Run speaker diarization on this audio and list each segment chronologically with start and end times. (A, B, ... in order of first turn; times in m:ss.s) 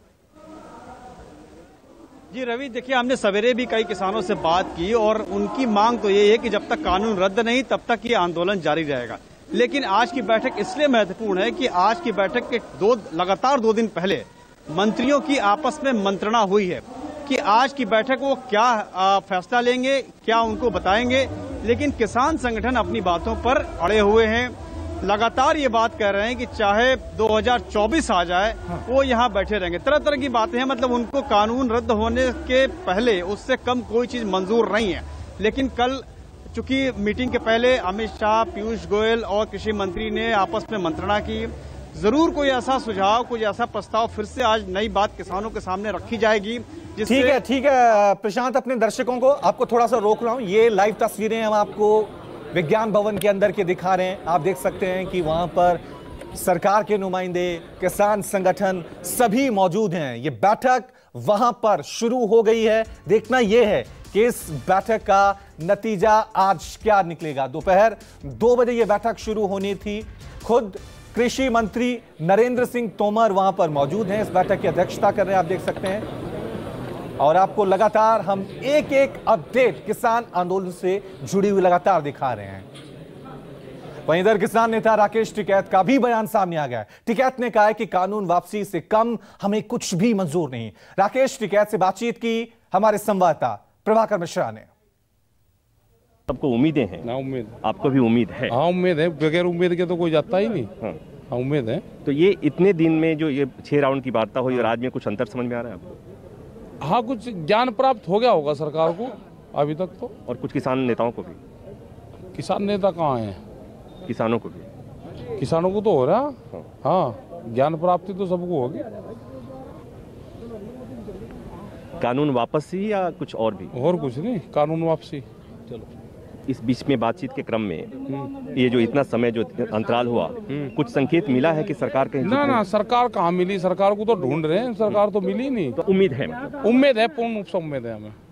0:02.3-0:47.4 A
0:47.1-0:55.8 B
0:56.3-1:16.0 B
1:17.2-1:22.7 B
1:24.1-1:34.7 B
1:36.3-1:37.1 C
1:37.0-1:37.5 D
1:37.6-1:38.5 C
1:38.5-1:40.7 D
1:41.3-1:41.8 D
1:42.0-1:46.0 C
1:46.8-1:50.1 D
1:50.2-1:51.4 C
1:52.3-1:53.4 D
1:54.0-1:54.6 C
1:55.4-1:58.9 D
2:02.0-2:03.7 C
2:03.7-2:05.2 D
2:06.5-2:12.6 C
2:12.2-2:15.8 D
2:15.8-2:16.4 C
2:16.5-2:18.1 D